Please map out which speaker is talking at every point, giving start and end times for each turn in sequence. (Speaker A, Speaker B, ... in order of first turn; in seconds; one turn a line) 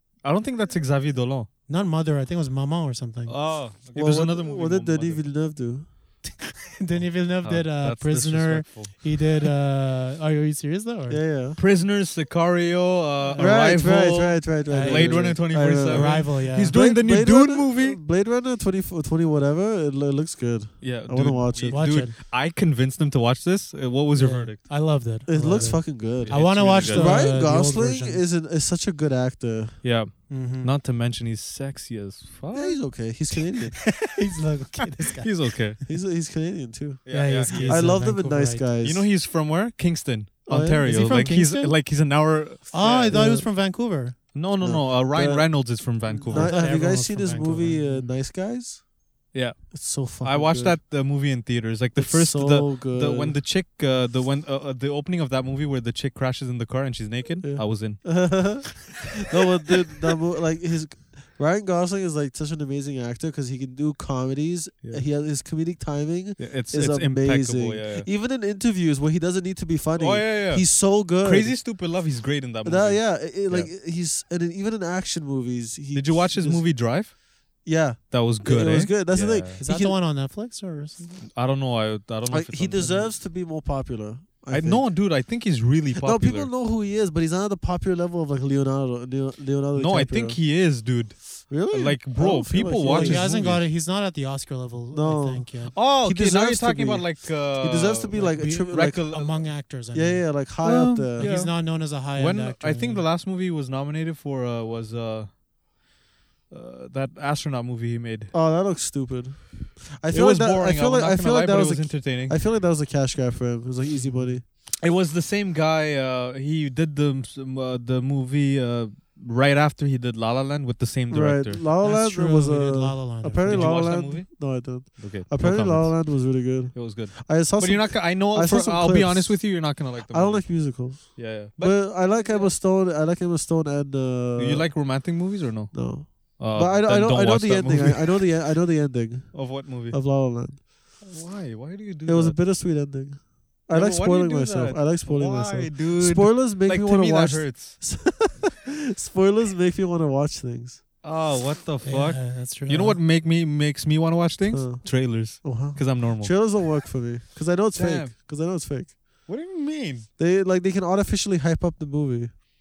Speaker A: 0.2-1.5
Speaker B: 1.7-3.4
Speaker A: 3.3-5.2
Speaker C: 4.0-5.9
Speaker B: 6.2-11.2
Speaker A: 7.4-9.5
Speaker C: 11.1-11.6
Speaker A: 11.6-18.0
Speaker C: 13.4-21.9
Speaker B: 14.7-16.8
Speaker A: 20.8-24.6
Speaker B: 21.7-22.1
Speaker B: 24.2-28.2
Speaker C: 25.3-29.8
Speaker A: 26.2-27.3
Speaker A: 29.8-33.0
Speaker B: 30.3-30.7
Speaker C: 32.5-33.8
Speaker B: 33.8-35.4
Speaker A: 35.2-35.8
Speaker C: 35.9-39.0
Speaker A: 37.1-37.9
Speaker B: 37.1-38.7
Speaker A: 38.8-43.2
Speaker C: 40.5-40.8
Speaker B: 40.9-41.8
Speaker B: 42.7-44.2
Speaker C: 43.1-43.5
Speaker A: 44.3-46.6
Speaker C: 44.6-45.5
Speaker B: 46.1-48.1
Speaker C: 46.3-48.8
Speaker A: 49.3-58.7
Speaker C: 49.7-50.8
Speaker C: 52.0-53.4
Speaker C: 57.4-71.6
Speaker A: 66.4-68.1
Speaker A: 70.0-73.7
Speaker C: 72.6-76.7
Speaker A: 75.9-77.2
Speaker C: 77.7-80.0
Speaker A: 78.1-79.6
Speaker B: 79.6-81.2
Speaker A: 81.2-83.0
Speaker C: 82.3-84.9
Speaker A: 84.5-86.5
Speaker C: 86.0-90.4
Speaker A: 89.8-93.6
Speaker C: 91.5-93.3
Speaker B: 92.9-95.7
Speaker C: 94.9-99.0
Speaker A: 95.7-99.4
Speaker B: 98.1-100.3
Speaker C: 99.9-101.3
Speaker A: 100.6-105.3
Speaker B: 101.2-103.0
Speaker A: 106.5-108.3
Speaker C: 108.3-114.4
Speaker A: 110.1-112.4
Speaker B: 113.9-114.4
Speaker A: 114.8-121.6
Speaker C: 121.1-134.7
Speaker B: 121.8-123.8
Speaker A: 123.5-132.5
Speaker A: 134.4-138.2
Speaker C: 135.7-140.6
Speaker A: 139.3-140.0
Speaker A: 141.0-142.4
Speaker C: 142.1-150.8
Speaker A: 143.7-147.8
Speaker A: 151.0-156.3
Speaker B: 151.8-153.0
Speaker C: 154.5-158.9
Speaker A: 157.8-158.1
Speaker A: 159.3-160.1
Speaker C: 160.2-162.3